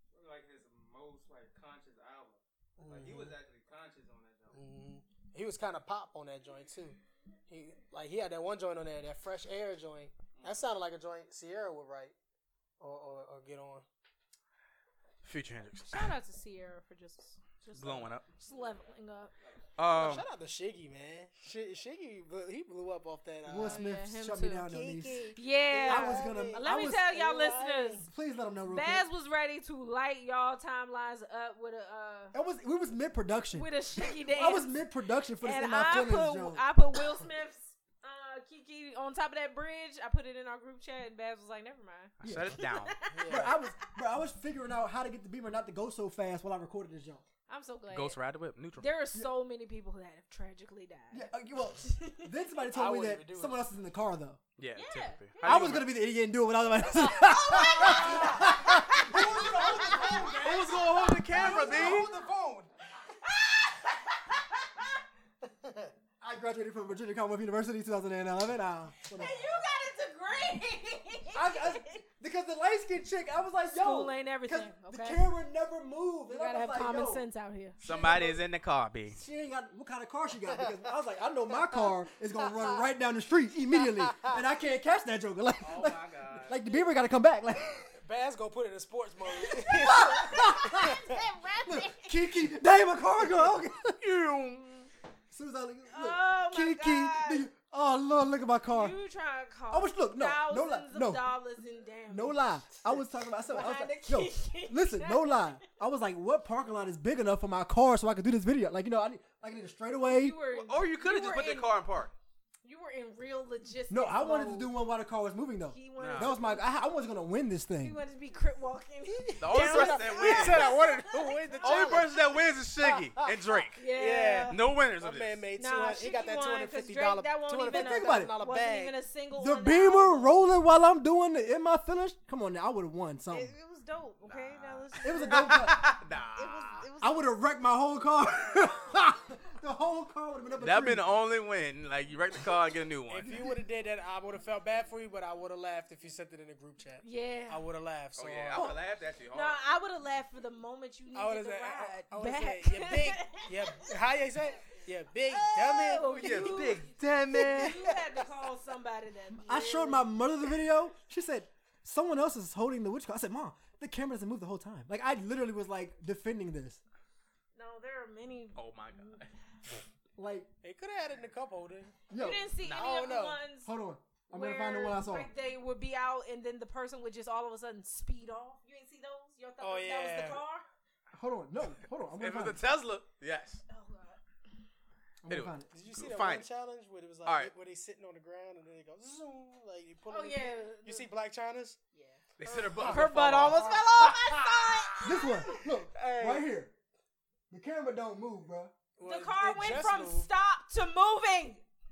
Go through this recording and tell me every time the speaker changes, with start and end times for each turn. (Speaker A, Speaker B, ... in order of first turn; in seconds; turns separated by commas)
Speaker A: 0.1-4.6, Speaker B: 2.8-3.4, Speaker B: 4.5-12.2, Speaker A: 10.3-10.7, Speaker B: 12.8-13.9, Speaker C: 15.2-16.1, Speaker D: 15.9-19.3, Speaker C: 17.8-18.3, Speaker C: 19.8-20.3, Speaker B: 19.9-23.9, Speaker E: 23.5-27.1, Speaker D: 23.5-28.1, Speaker B: 25.7-28.0, Speaker E: 28.0-29.1, Speaker D: 28.7-32.4, Speaker E: 32.3-33.7, Speaker D: 33.5-34.8, Speaker E: 34.2-36.7, Speaker D: 35.4-44.0, Speaker C: 42.2-43.0, Speaker E: 42.2-42.6, Speaker B: 43.1-43.5, Speaker E: 43.3-47.2, Speaker D: 47.5-48.2, Speaker C: 47.9-48.9, Speaker D: 48.8-52.4, Speaker E: 51.1-54.4, Speaker B: 52.7-53.6, Speaker C: 54.6-55.9, Speaker D: 54.8-55.9, Speaker E: 55.4-60.7, Speaker D: 56.9-62.2, Speaker B: 57.8-58.5, Speaker B: 59.1-62.7, Speaker C: 60.3-62.1, Speaker E: 61.4-62.0, Speaker D: 63.0-64.2, Speaker B: 65.4-65.9, Speaker E: 66.2-69.4, Speaker D: 69.1-72.0, Speaker E: 71.3-77.3, Speaker D: 73.7-75.3, Speaker D: 76.3-78.4, Speaker C: 77.8-79.2, Speaker E: 79.1-88.0, Speaker B: 80.5-80.8, Speaker B: 83.9-84.3, Speaker C: 85.6-86.5, Speaker A: 85.8-86.6, Speaker B: 88.0-91.2, Speaker D: 89.3-92.2, Speaker E: 89.8-91.0, Speaker E: 91.7-94.0, Speaker C: 94.0-94.9, Speaker E: 95.3-99.0, Speaker D: 95.9-97.5, Speaker D: 98.7-102.9, Speaker E: 99.7-101.2, Speaker E: 102.1-110.4, Speaker D: 103.5-105.6, Speaker D: 110.0-111.8, Speaker C: 110.5-112.1, Speaker D: 112.6-114.7, Speaker E: 113.9-118.0, Speaker D: 115.7-116.7, Speaker C: 116.0-116.4, Speaker D: 117.8-122.1, Speaker C: 119.4-120.7, Speaker B: 119.5-128.9, Speaker C: 121.6-123.8, Speaker D: 123.8-124.6, Speaker C: 124.5-125.4, Speaker D: 125.6-130.3, Speaker E: 127.7-128.3, Speaker E: 129.4-133.5, Speaker D: 133.3-137.2, Speaker C: 134.2-136.9, Speaker E: 135.0-135.8, Speaker E: 137.0-141.1, Speaker C: 140.6-143.4, Speaker B: 143.1-148.8, Speaker E: 143.2-143.5, Speaker D: 147.0-147.7, Speaker C: 148.2-149.6, Speaker D: 149.3-154.0, Speaker B: 151.1-156.3, Speaker D: 155.3-160.6, Speaker C: 156.1-157.2, Speaker E: 156.2-158.2, Speaker E: 159.3-166.8, Speaker D: 167.6-169.2, Speaker C: 168.6-169.3, Speaker E: 170.2-170.5, Speaker B: 170.6-172.0, Speaker E: 172.1-172.5, Speaker D: 172.1-173.7, Speaker B: 172.7-173.4, Speaker E: 173.6-175.3, Speaker D: 174.3-180.7, Speaker B: 179.6-180.4, Speaker E: 181.1-182.6, Speaker C: 182.0-183.6, Speaker D: 183.7-184.2, Speaker E: 185.2-185.7, Speaker C: 185.3-186.5, Speaker B: 185.7-191.8, Speaker C: 187.2-187.5, Speaker D: 190.1-191.1, Speaker D: 191.9-192.2, Speaker C: 192.4-193.8, Speaker B: 192.5-195.0, Speaker D: 192.7-195.8, Speaker E: 195.0-196.7, Speaker B: 195.9-196.5, Speaker E: 197.5-198.7, Speaker B: 199.0-200.3, Speaker D: 199.0-201.7